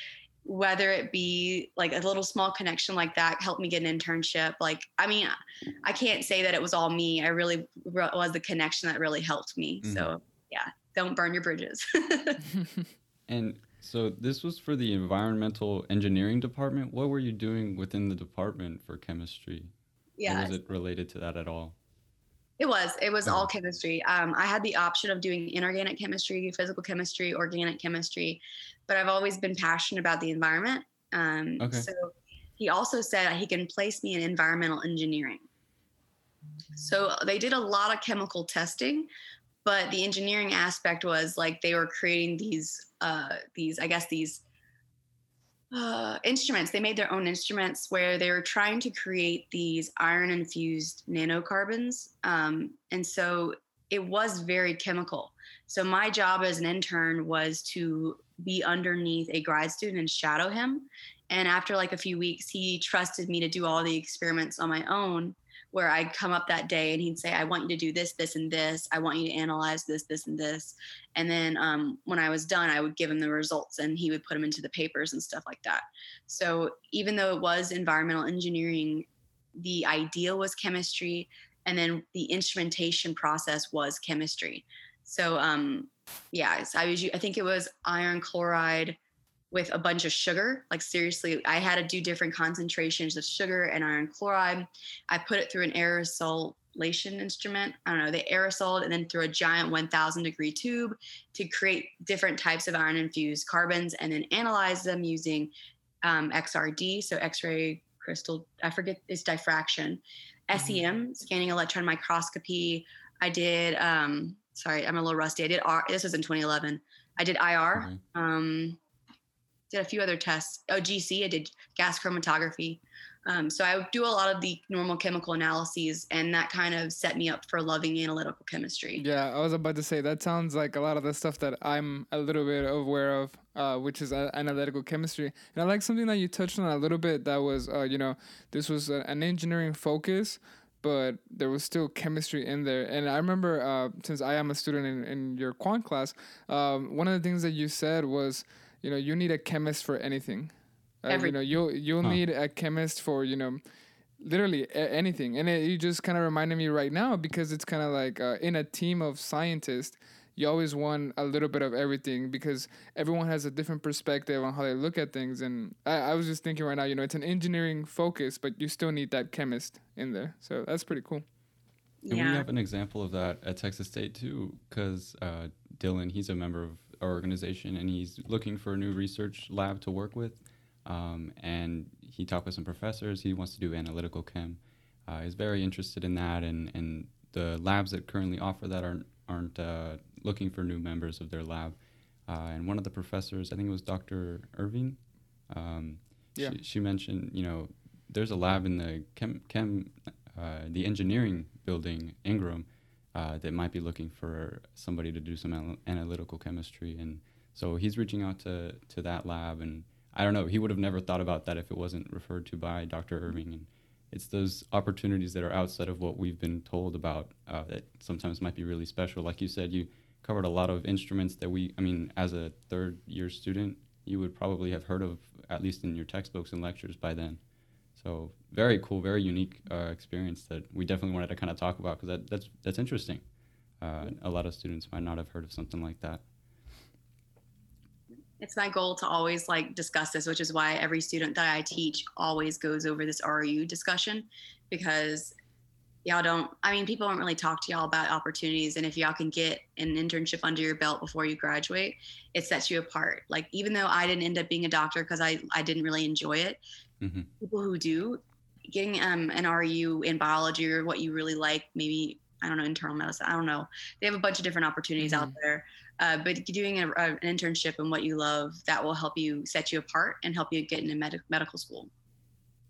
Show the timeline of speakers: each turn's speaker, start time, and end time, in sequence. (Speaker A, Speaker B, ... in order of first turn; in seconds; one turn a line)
Speaker A: 0.5-5.3
Speaker A: 5.8-12.4
Speaker B: 9.8-10.1
Speaker B: 13.3-19.7
Speaker A: 20.2-20.6
Speaker B: 20.3-21.8
Speaker A: 22.6-35.5
Speaker B: 31.6-31.9
Speaker A: 36.8-39.1
Speaker A: 39.6-44.4
Speaker A: 45.7-89.0
Speaker A: 89.5-105.5
Speaker A: 106.0-118.8
Speaker B: 117.8-118.0
Speaker A: 119.7-129.0
Speaker C: 129.0-153.6
Speaker A: 151.1-151.4
Speaker C: 154.2-171.2
Speaker A: 172.0-172.5
Speaker B: 172.1-227.4
Speaker B: 228.0-233.2
Speaker B: 233.8-236.2
Speaker A: 238.4-245.3
Speaker A: 246.1-256.6
Speaker B: 257.0-257.3
Speaker A: 257.4-271.9
Speaker C: 265.0-265.3